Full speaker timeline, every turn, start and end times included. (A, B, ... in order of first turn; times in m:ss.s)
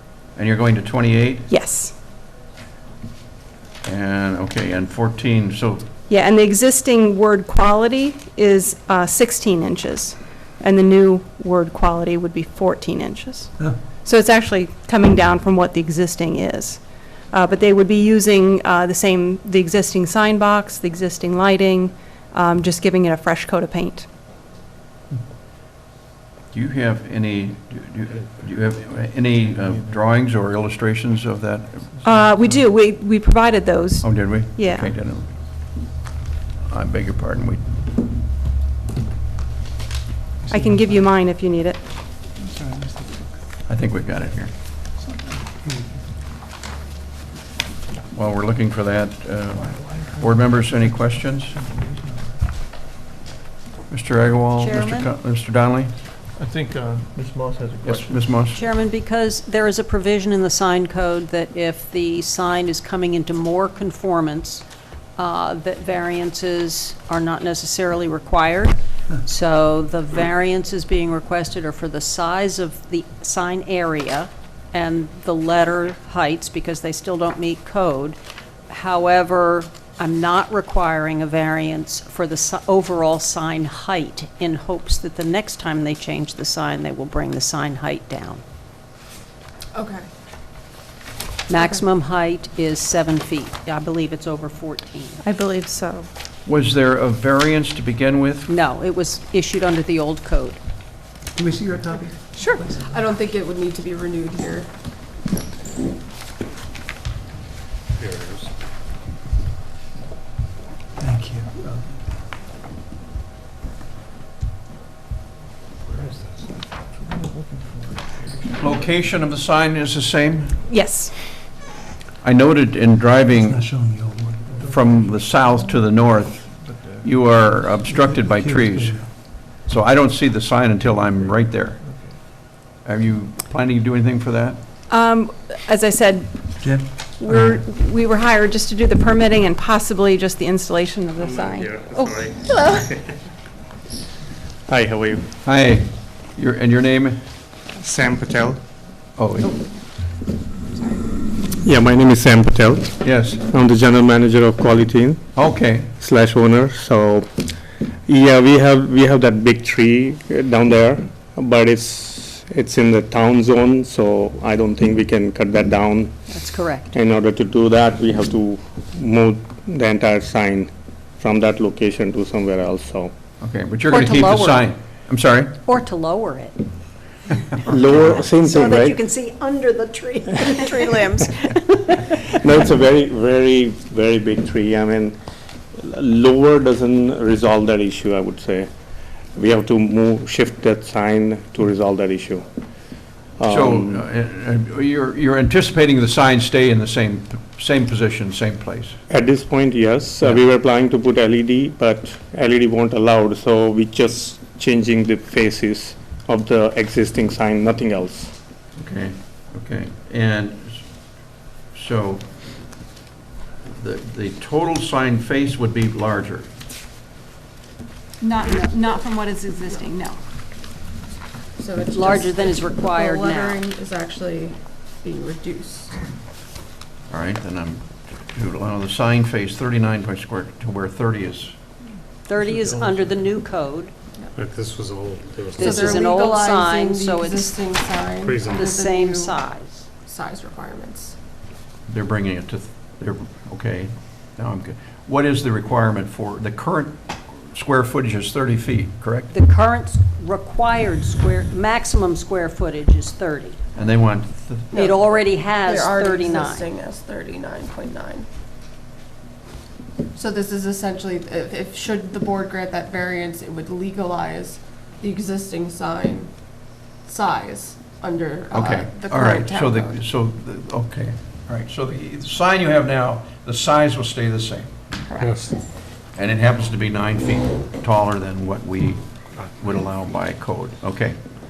0:00.4-0:01.5 A
0:01.5-0:02.0 B
0:03.8-0:05.9 A
0:06.1-0:13.5 B
0:14.0-0:16.8 B
0:17.3-0:24.1 B
0:26.5-0:31.8 A
0:32.0-0:34.9 B
0:34.0-0:35.3 A
0:36.6-0:37.6 A
0:40.5-0:41.8 B
0:40.5-0:41.0 C
0:42.4-0:43.2 C
0:43.7-0:44.5 A
0:45.1-0:46.0 C
0:48.1-0:51.6 A
0:49.8-0:50.2 C
0:51.7-0:52.2 C
0:53.9-0:55.9 A
0:54.6-0:55.1 D
0:56.4-0:58.2 E
0:57.8-0:58.6 A
0:58.5-1:04.6 D
1:05.2-1:18.2 D
1:18.7-1:28.4 D
1:29.7-1:30.1 F
1:31.5-1:35.2 D
1:31.5-1:31.8 F
1:35.2-1:36.1 B
1:36.4-1:38.5 A
1:38.5-1:40.6 D
1:41.3-1:43.1 C
1:42.4-1:44.7 F
1:48.0-1:48.5 G
1:51.0-1:52.0 C
1:56.9-1:58.9 E
1:58.6-2:00.6 A
2:00.7-2:01.1 B
2:02.2-2:03.7 A
2:03.3-2:05.0 C
2:04.5-2:05.0 E
2:04.6-2:11.8 A
2:06.5-2:07.2 E
2:07.6-2:09.1 C
2:11.8-2:12.1 E
2:12.8-2:14.6 A
2:14.9-2:16.6 B
2:16.6-2:17.6 C
2:17.2-2:22.8 B
2:21.6-2:22.1 H
2:24.7-2:25.3 H
2:25.4-2:27.2 A
2:27.7-2:28.6 H
2:29.2-2:29.5 A
2:31.6-2:35.3 H
2:33.0-2:33.4 A
2:35.3-2:35.9 A
2:35.9-2:37.4 H
2:38.1-2:46.2 H
2:46.3-2:46.9 D
2:46.9-2:53.1 H
2:53.4-2:55.6 A
2:53.9-2:54.7 D
2:55.6-2:56.7 D
2:57.3-3:02.3 D
2:57.7-2:59.0 H
3:02.2-3:05.2 H
3:05.7-3:08.7 H
3:09.3-3:12.4 H
3:13.4-3:14.0 H
3:13.4-3:18.9 A
3:19.1-3:28.3 H
3:28.8-3:30.9 A
3:31.7-3:32.2 A
3:33.6-3:36.5 A
3:38.2-3:40.2 B
3:41.6-3:45.9 F
3:41.9-3:43.7 D
3:47.1-3:51.6 A
3:52.2-3:53.9 D
3:54.4-3:56.0 G
3:55.5-3:57.7 D
3:55.6-3:59.4 F
3:58.4-3:59.8 D
4:00.0-4:01.1 F
4:01.9-4:09.3 A
4:09.3-4:13.6 D
4:13.7-4:14.8 A
4:14.7-4:15.1 F
4:14.7-4:16.7 D
4:15.6-4:18.2 F
4:20.2-4:26.3 F
4:27.1-4:30.0 F
4:28.5-4:34.7 A
4:35.2-4:35.6 G
4:36.1-4:41.2 A